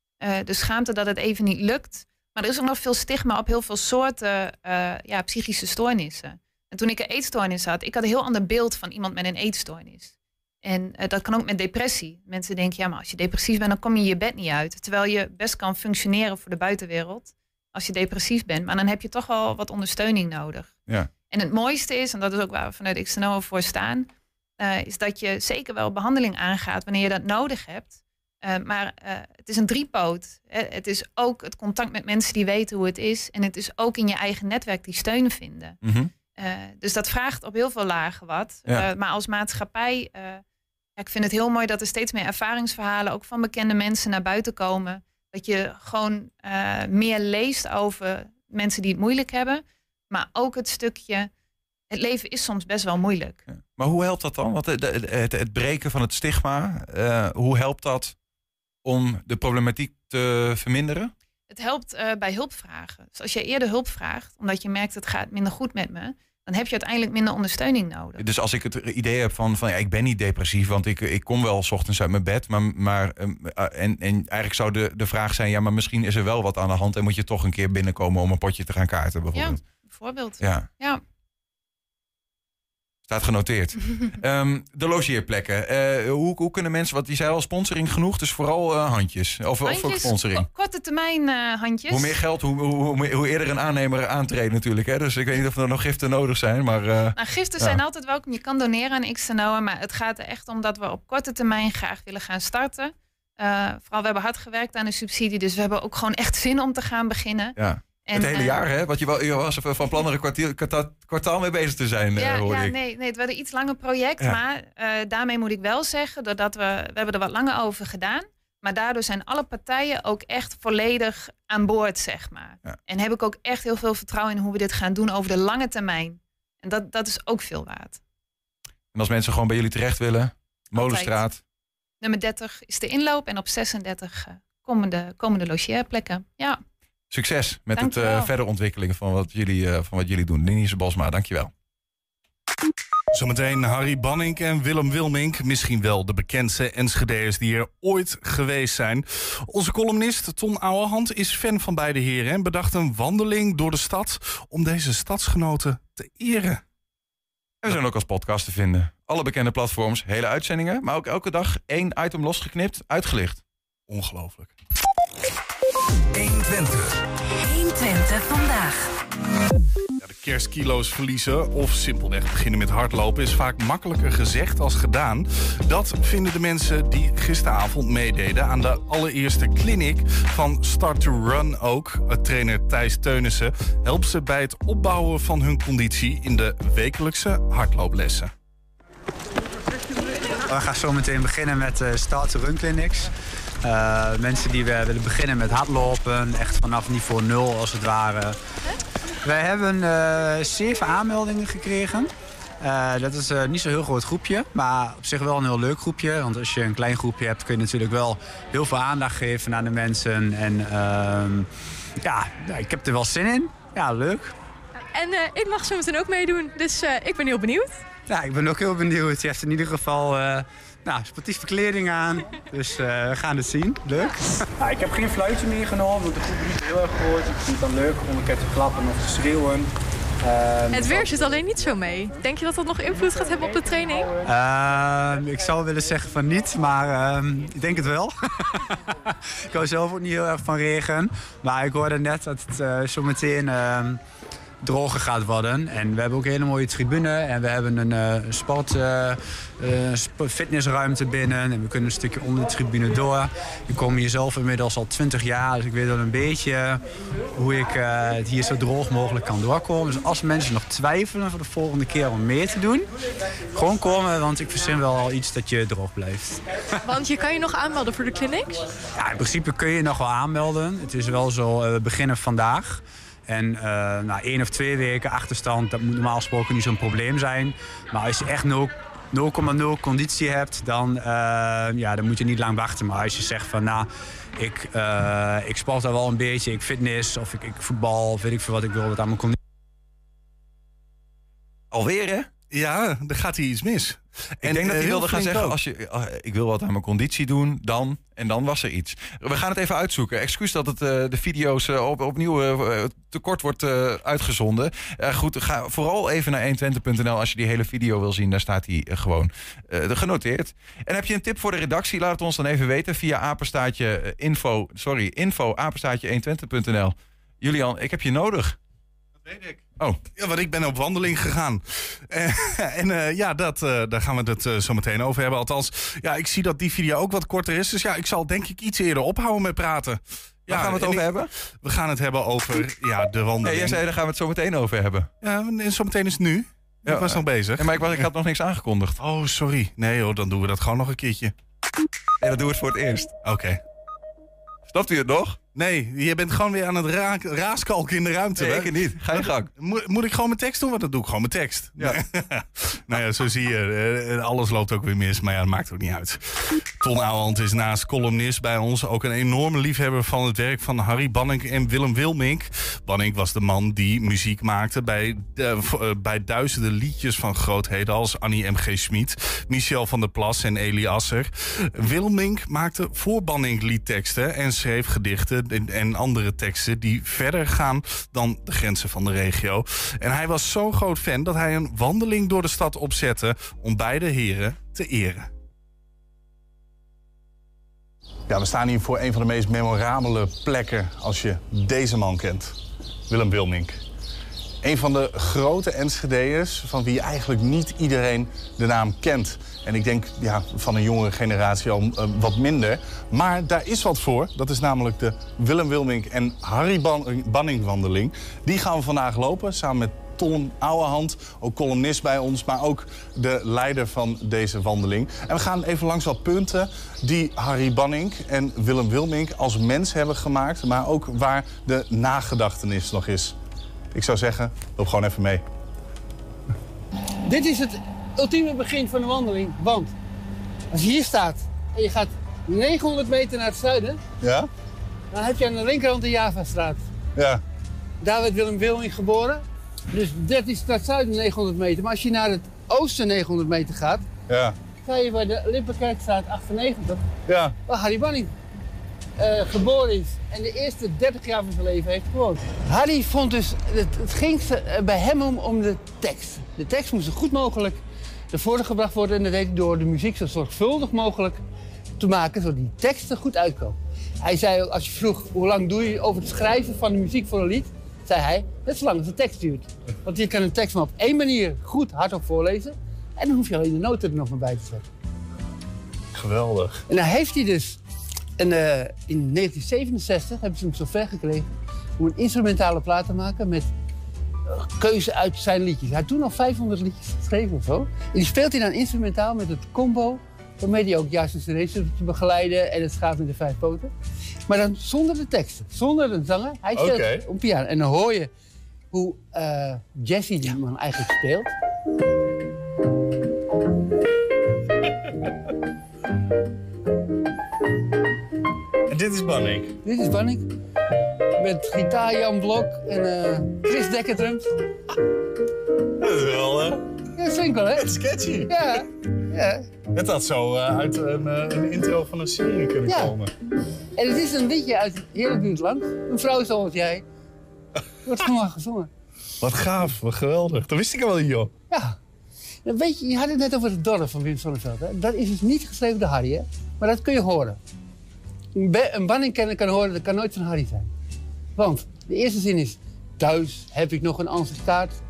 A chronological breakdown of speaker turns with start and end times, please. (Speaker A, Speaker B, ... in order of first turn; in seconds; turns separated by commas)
Speaker A: 0.2-20.8, Speaker A: 21.3-35.8, Speaker B: 35.8-36.1, Speaker A: 36.4-40.4, Speaker A: 41.0-51.3, Speaker A: 51.9-53.4, Speaker B: 53.5-58.1, Speaker B: 58.8-61.1, Speaker A: 61.5-68.2, Speaker B: 68.2-79.6, Speaker A: 79.3-81.0, Speaker B: 80.4-80.7, Speaker B: 83.1-90.5, Speaker A: 89.6-92.1, Speaker B: 91.9-97.8, Speaker A: 97.2-108.6, Speaker B: 107.6-112.8, Speaker A: 112.2-128.0, Speaker B: 128.9-131.4, Speaker A: 130.7-131.2, Speaker A: 132.0-136.6, Speaker B: 137.1-141.5, Speaker A: 137.8-138.3, Speaker C: 143.1-156.6, Speaker B: 157.6-163.4, Speaker C: 163.9-164.5, Speaker D: 166.2-168.9, Speaker C: 170.0-188.3, Speaker E: 190.5-193.1, Speaker E: 193.6-198.4, Speaker E: 199.2-211.5, Speaker E: 212.0-214.3, Speaker F: 214.9-217.8, Speaker E: 218.1-229.7, Speaker E: 230.2-231.4, Speaker F: 230.7-234.1, Speaker E: 234.2-238.6, Speaker E: 239.5-244.0, Speaker E: 244.6-256.8, Speaker E: 257.4-262.9, Speaker E: 263.5-266.4, Speaker F: 266.9-268.6, Speaker E: 269.0-289.4, Speaker B: 291.7-292.3, Speaker C: 292.5-295.6, Speaker B: 294.4-318.6, Speaker C: 319.3-319.6, Speaker C: 320.2-331.1, Speaker B: 330.5-331.3, Speaker C: 331.6-333.8, Speaker B: 333.4-335.1, Speaker C: 335.2-337.9, Speaker B: 336.9-339.0, Speaker C: 339.0-341.3, Speaker B: 342.2-343.1, Speaker C: 343.2-343.6, Speaker B: 344.7-345.4, Speaker C: 345.6-385.3, Speaker B: 348.4-349.5, Speaker C: 388.3-392.6, Speaker C: 393.1-393.8, Speaker C: 394.6-423.4, Speaker C: 423.9-425.4, Speaker G: 427.3-429.9, Speaker G: 430.7-434.0, Speaker C: 434.2-434.5, Speaker G: 435.1-436.8, Speaker C: 437.2-437.4, Speaker G: 438.0-444.1, Speaker C: 444.3-444.6, Speaker G: 444.8-447.0, Speaker C: 447.3-447.6, Speaker G: 447.7-448.3, Speaker G: 449.2-457.8, Speaker G: 458.3-461.4, Speaker G: 462.0-474.9, Speaker C: 476.1-476.8, Speaker G: 476.9-477.8, Speaker G: 478.4-483.7, Speaker G: 484.5-493.9, Speaker G: 494.5-498.3, Speaker C: 496.8-497.2, Speaker G: 498.9-501.5, Speaker C: 508.9-509.8, Speaker G: 509.8-510.5, Speaker G: 511.4-514.5, Speaker C: 516.0-516.8, Speaker G: 517.2-519.7, Speaker C: 517.7-518.8, Speaker C: 519.9-523.3, Speaker G: 522.9-523.1, Speaker G: 524.0-527.0, Speaker G: 528.1-528.9, Speaker C: 529.4-531.5, Speaker G: 531.7-532.0, Speaker G: 532.6-537.6, Speaker G: 538.5-540.9, Speaker G: 541.6-545.0